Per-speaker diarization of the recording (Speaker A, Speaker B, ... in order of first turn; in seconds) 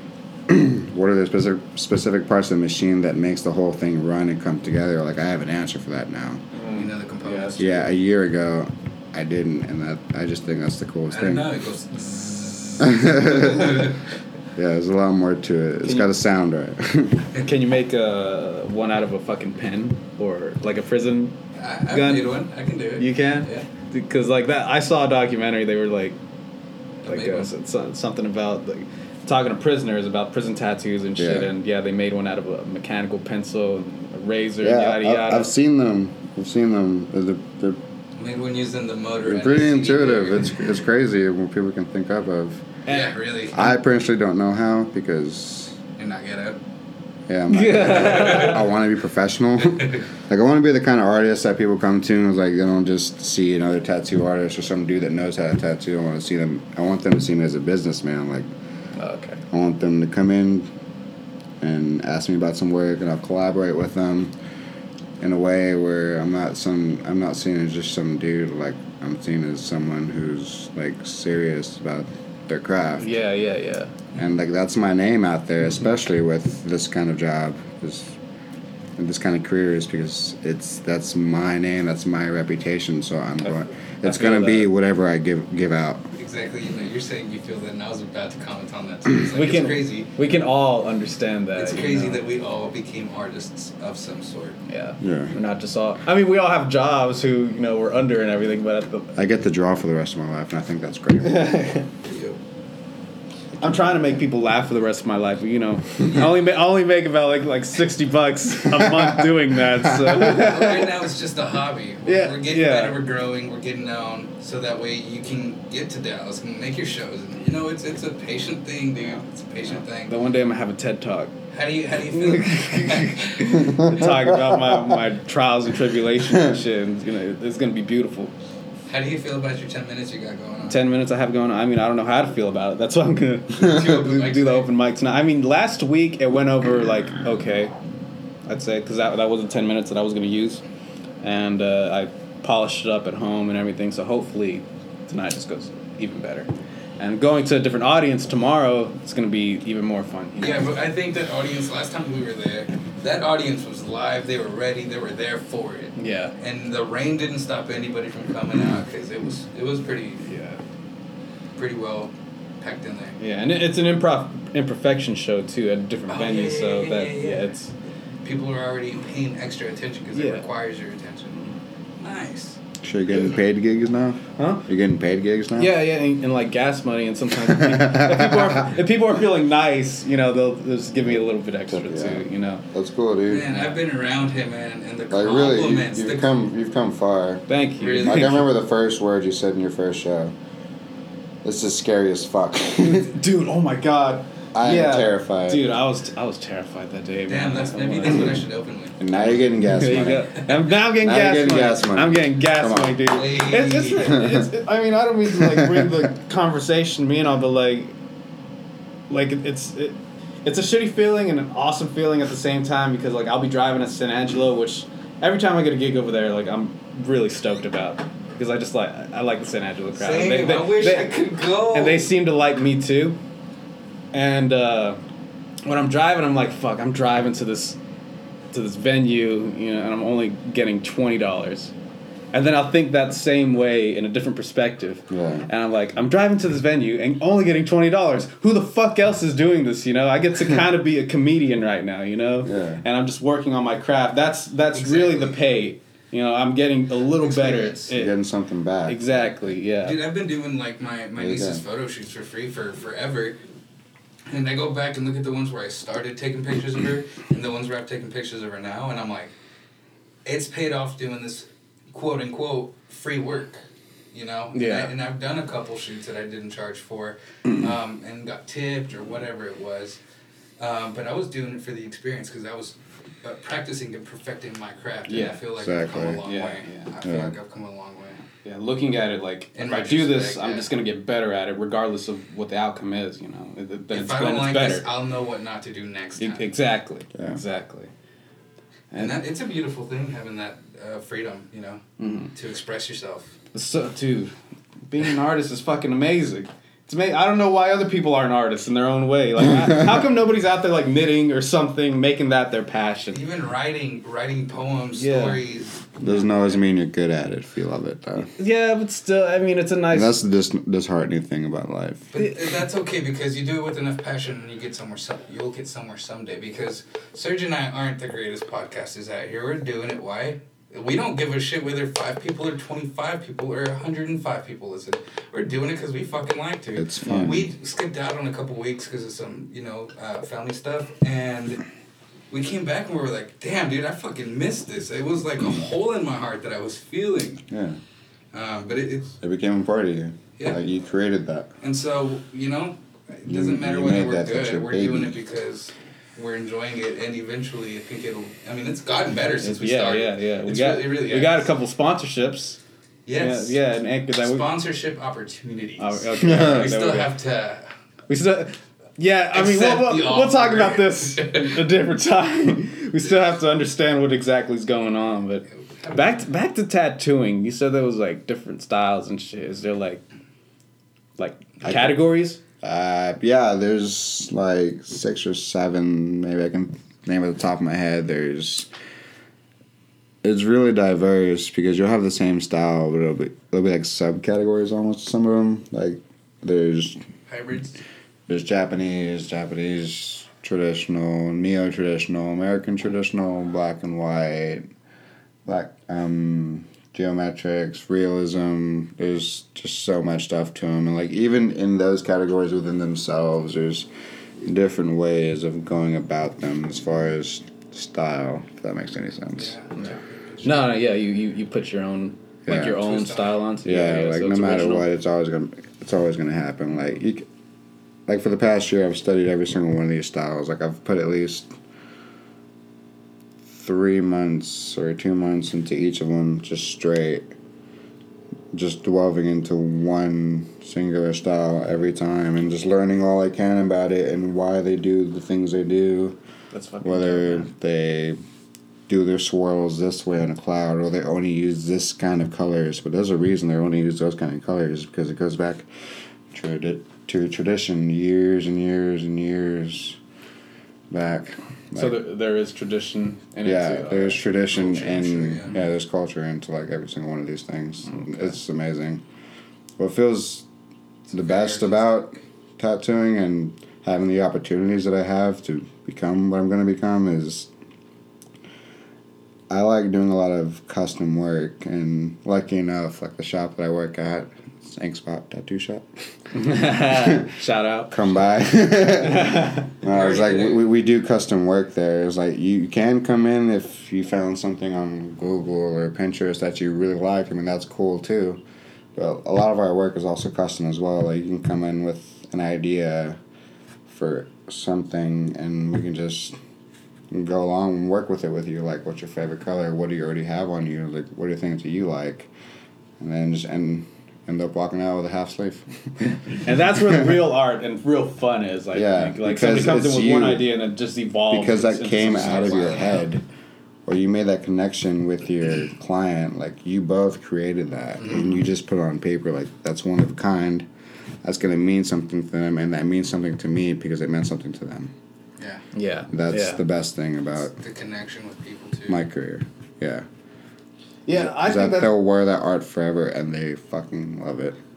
Speaker A: 0.5-6.4, 7.6-11.5, 12.8-13.9, 14.6-17.3, 31.2-31.5, 34.6-37.8, 39.2-42.7, 43.5-45.8, 47.3-58.5, 59.5-60.7, 61.6-64.3, 65.2-73.2, 74.2-78.2, 79.0-86.1, 95.0-95.3, 99.2-101.5, 103.7-104.2, 108.7-109.2, 109.8-110.2, 123.7-125.0, 172.8-175.8, 177.4-178.8, 181.7-183.7, 185.1-187.4, 188.0-190.3, 191.4-193.2, 194.5-195.7, 199.0-200.3, 200.9-203.1, 204.1-204.5, 205.4-206.0, 235.1-235.5, 242.4-242.8, 247.9-249.2, 251.2-251.6, 275.6-276.2, 277.0-277.4, 287.1-287.4, 306.0-308.3, 309.9-312.1, 326.8-327.5, 337.5-337.8, 339.2-341.5, 343.3-345.1, 356.2-356.7, 371.6-371.9, 372.6-378.7, 380.2-387.0, 388.3-394.6, 395.5-403.9, 404.4-409.6, 412.5-412.8, 413.6-417.3, 418.1-421.5, 423.5-427.3, 428.5-436.2, 436.8-438.2, 438.9-445.7, 446.3-450.0, 450.9-452.0, 453.4-459.0, 459.8-460.5, 461.1-467.5, 469.5-475.9, 476.9-477.3, 477.9-488.4, 488.9-493.2, 493.9-496.4, 497.1-502.3, 503.0-507.2, 508.7-510.5, 511.3-513.2, 513.9-520.7, 521.2-524.9, 526.1-527.6, 528.9-530.1, 531.1-534.6
Speaker B: 6.5-7.8, 15.8-16.1, 17.4-21.4, 21.9-22.4, 23.0-26.2, 27.1-35.5, 42.9-43.2, 47.5-48.6, 59.0-59.4, 73.0-73.9, 83.4-84.7, 89.3-92.2, 94.7-99.1, 101.2-101.9, 103.6-111.0, 112.1-113.0, 120.1-121.3, 122.1-128.3, 130.7-137.8, 138.5-140.6, 141.2-146.5, 147.0-150.8, 156.0-156.3, 160.2-160.6, 163.2-167.7, 170.1-170.5, 174.4-174.7, 175.6-182.6, 187.5-188.5, 192.9-198.4, 199.7-208.0, 209.1-221.2, 221.7-223.2, 224.1-225.0, 225.7-227.8, 228.5-231.7, 232.3-248.2, 248.9-250.0, 264.5-264.9, 275.1-275.4, 276.2-277.0, 278.4-284.9, 286.2-287.9, 292.0-292.3, 293.5-294.3, 294.9-303.2, 305.0-305.4, 308.4-310.2, 327.0-327.4, 349.4-352.6, 353.1-354.5, 355.8-357.1, 358.1-370.0, 371.2-372.4, 410.4-414.9, 436.5-437.5, 451.8-454.2, 476.3-478.2, 479.0-479.7, 506.4-512.9, 525.7-526.6, 531.1-531.9
Speaker C: 6.8-7.9, 11.1-14.1, 21.6-23.7, 27.0-27.5, 38.2-40.8, 42.9-43.7, 46.0-46.6, 48.0-48.6, 49.6-50.0, 86.2-90.1, 91.6-94.6, 102.0-102.4, 110.1-120.1, 121.5-123.8, 128.9-130.8, 133.6-134.7, 150.4-160.2, 161.6-163.2, 166.1-167.5, 168.2-171.4, 172.0-172.6, 183.3-186.3, 187.8-188.4, 197.3-199.1, 203.1-204.2, 220.0-222.1, 244.7-245.4, 247.2-247.9, 249.8-253.4, 254.3-259.3, 260.2-270.0, 270.6-278.3, 279.6-280.7, 283.9-286.5, 289.0-291.8, 292.3-293.4, 303.1-306.6, 312.1-331.6, 332.3-337.4, 338.3-339.2, 341.6-351.5, 353.1-353.6, 354.2-357.7, 359.3-361.6, 365.6-366.2, 387.3-387.8, 409.4-410.8, 412.5-413.4, 454.5-455.5, 461.1-462.1, 479.9-480.7, 512.0-513.1, 518.0-518.3, 525.4-525.6, 527.5-529.0